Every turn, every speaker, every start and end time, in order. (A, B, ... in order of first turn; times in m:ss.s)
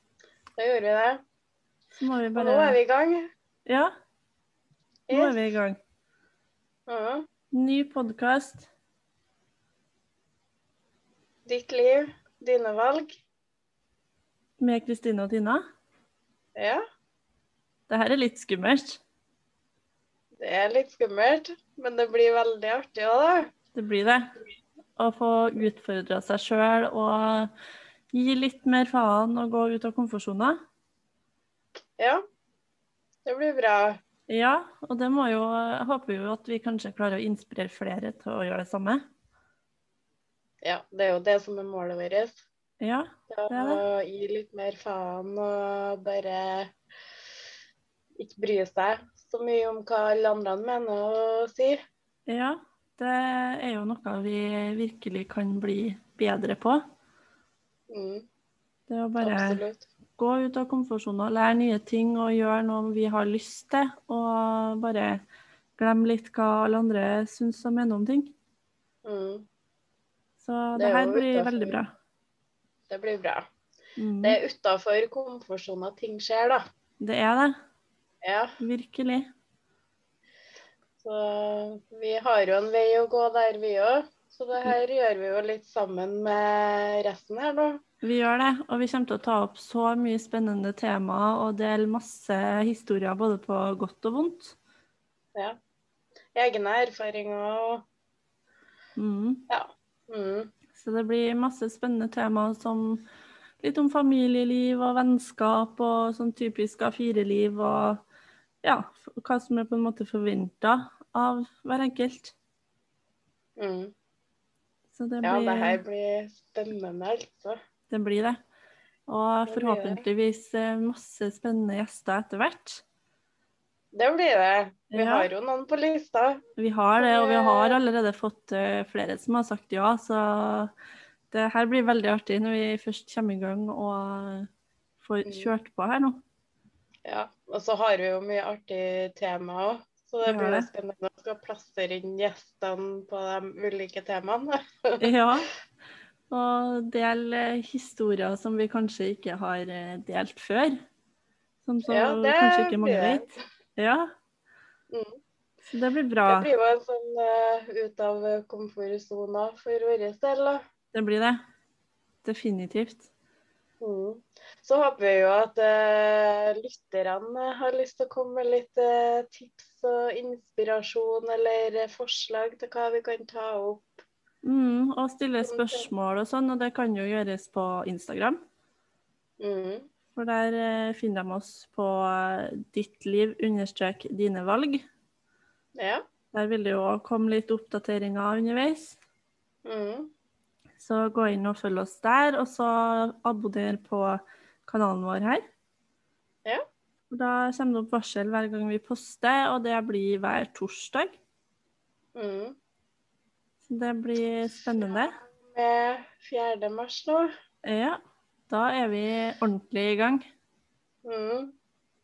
0:00.6-0:01.2 A
0:02.0-0:02.8 B
0:02.4-0:03.2 A
0:03.7-0:03.9 B
0:05.1-0:05.5 A
0:05.1-0:05.8 B
0:06.9-0:07.3 A
0:07.5-0:08.7 B
0:11.5-0:13.2 A
0:14.6-0:15.6 B
0:16.6-0:16.8 A
0:17.9-0:19.0 B
0:20.4-0:23.5 A
0:23.7-0:24.3 B
0:25.0-0:27.5 B
0:28.1-0:30.6 B
0:33.2-0:34.0 A
0:34.3-0:39.0 B
0:40.6-0:42.4 A
0:42.8-0:43.8 B
0:43.3-0:46.7 A
0:48.2-0:51.8 A
0:52.3-0:56.8 B
0:57.9-0:58.2 A
0:58.9-0:59.6 B
0:59.2-0:59.9 A
1:00.2-1:05.2 B
1:05.8-1:08.3 B
1:09.0-1:09.5 A
1:10.4-1:11.9 B
1:10.8-1:11.8 A
1:12.9-1:13.5 A
1:14.0-1:14.4 B
1:14.2-1:16.6 A
1:17.0-1:17.6 B
1:18.2-1:18.5 A
1:18.6-1:19.3 B
1:21.0-1:27.8 A
1:28.0-1:34.6 B
1:36.4-1:37.8 A
1:39.0-1:39.4 B
1:39.5-1:40.5 A
1:40.8-1:43.0 B
1:43.6-1:48.0 B
1:48.6-1:52.3 B
1:53.6-1:53.9 A
1:54.9-1:55.8 B
1:55.2-1:57.6 A
1:57.9-1:58.4 B
1:59.1-2:02.8 B
1:59.5-2:00.0 A
2:03.9-2:06.4 A
2:04.9-2:05.3 B
2:06.6-2:10.7 B
2:07.0-2:07.8 A
2:11.3-2:14.5 B
2:15.0-2:16.2 B
2:15.3-2:15.5 A
2:17.0-2:25.0 A
2:20.2-2:20.7 B
2:25.0-2:25.5 B
2:26.3-2:30.8 B
2:31.6-2:34.1 B
2:31.9-2:33.3 A
2:34.9-2:35.2 A
2:35.7-2:36.5 B
2:36.3-2:40.6 A
2:40.9-2:41.4 B
2:42.2-2:43.1 B
2:43.8-2:54.0 A
2:54.4-2:58.4 B
2:55.4-2:55.9 A
2:59.4-2:59.9 A
3:00.2-3:04.8 B
3:05.8-3:06.0 A
3:06.3-3:09.0 B
3:09.6-3:10.1 A
3:10.8-3:15.4 B
3:17.1-3:21.2 B
3:22.2-3:22.6 A
3:23.6-3:25.2 B
3:24.8-3:27.3 A
3:27.6-3:30.2 B
3:31.0-3:31.5 A